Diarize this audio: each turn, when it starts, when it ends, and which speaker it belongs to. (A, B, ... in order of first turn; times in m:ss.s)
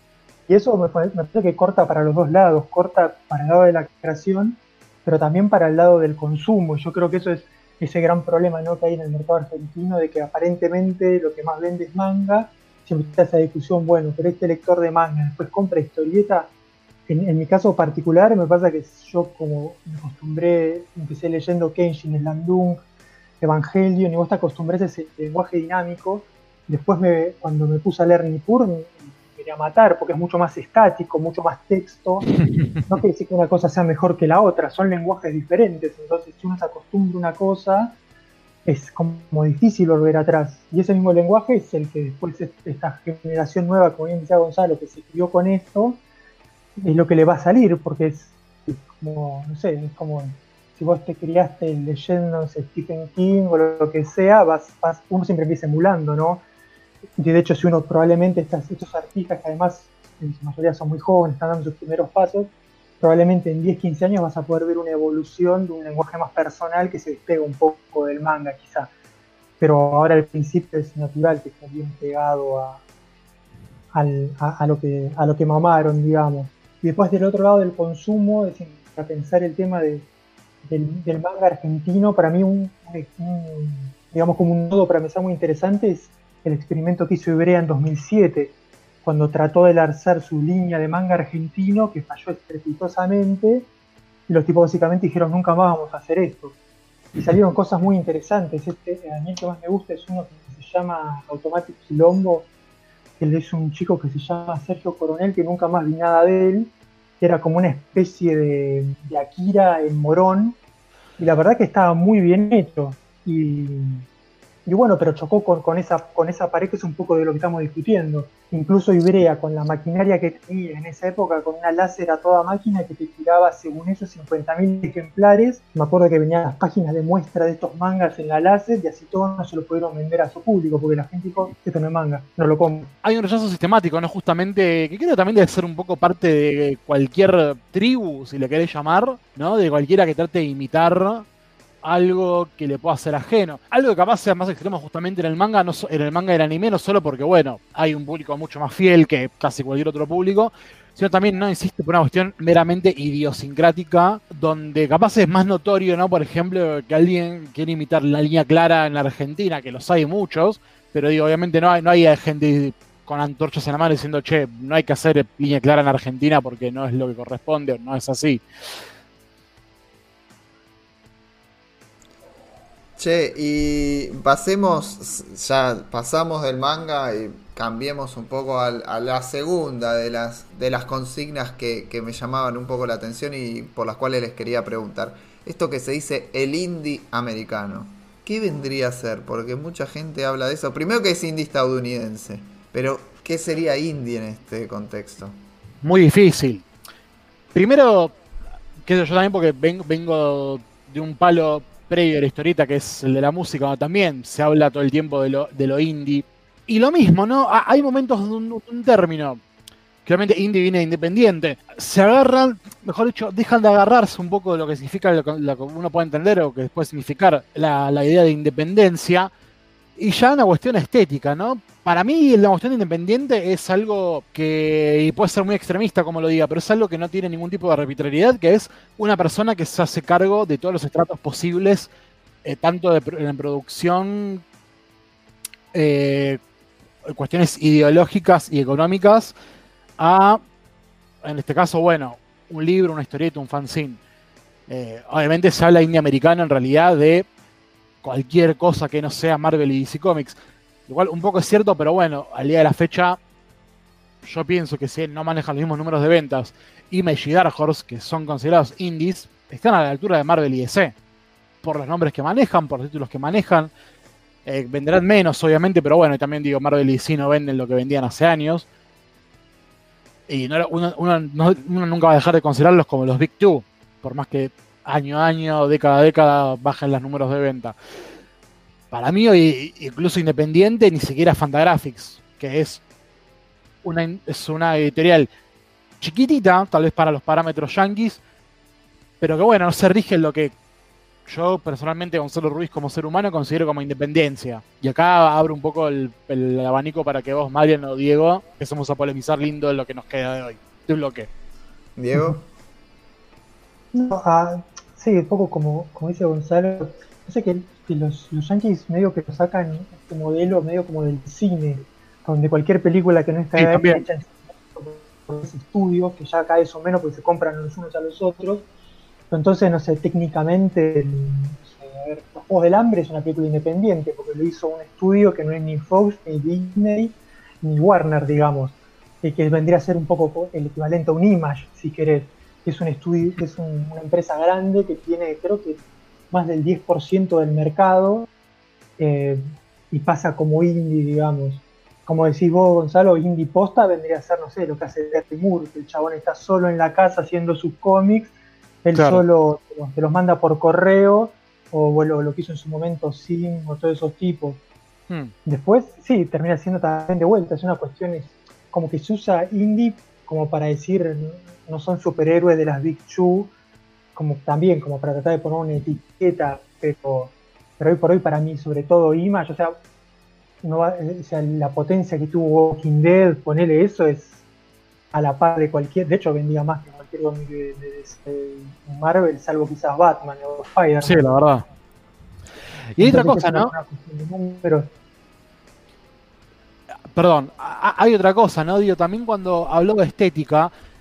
0:00.5-0:16.5 A
0:17.1-0:22.8 A
0:23.4-0:32.3 A
0:32.3-0:32.7 B
0:32.9-0:38.0 A
0:38.6-0:46.0 A
0:46.8-0:56.4 A
0:57.2-1:08.9 A
1:09.6-1:12.8 A
1:13.9-1:20.1 A
1:20.6-1:33.7 A
1:34.3-1:36.6 A
1:37.2-1:42.5 A
1:43.2-1:50.6 A
1:51.2-1:54.0 A
1:54.6-2:12.9 A
2:13.0-2:21.2 B
2:21.8-2:48.4 B
2:53.0-3:15.4 C
3:15.8-3:16.6 B
3:17.5-3:18.1 B
3:18.8-3:29.4 B
3:30.0-3:39.3 B
3:40.0-3:51.9 B
3:52.4-3:54.4 B
3:55.7-3:56.4 B
3:57.1-3:59.3 B
4:00.0-4:00.4 B
4:01.2-4:04.0 B
4:04.7-4:07.3 B
4:08.0-4:13.2 B
4:14.2-4:20.9 B
4:21.6-4:23.7 B
4:24.4-4:28.6 B
4:30.3-4:37.7 B
4:38.9-4:42.8 B
4:43.8-4:45.3 B
4:46.0-4:48.2 B
4:49.2-4:50.5 B
4:51.2-5:01.3 B
5:02.0-5:02.5 C
5:03.9-5:18.7 A
5:13.6-5:14.0 B
5:19.3-5:38.3 A
5:39.0-5:54.6 A
5:48.9-5:49.2 B
5:55.4-6:03.5 A
6:04.1-6:09.8 A
6:10.6-6:14.4 A
6:15.1-6:21.3 A
6:21.0-6:21.6 B
6:23.0-6:23.7 B
6:23.0-6:24.9 A
6:27.1-6:30.7 B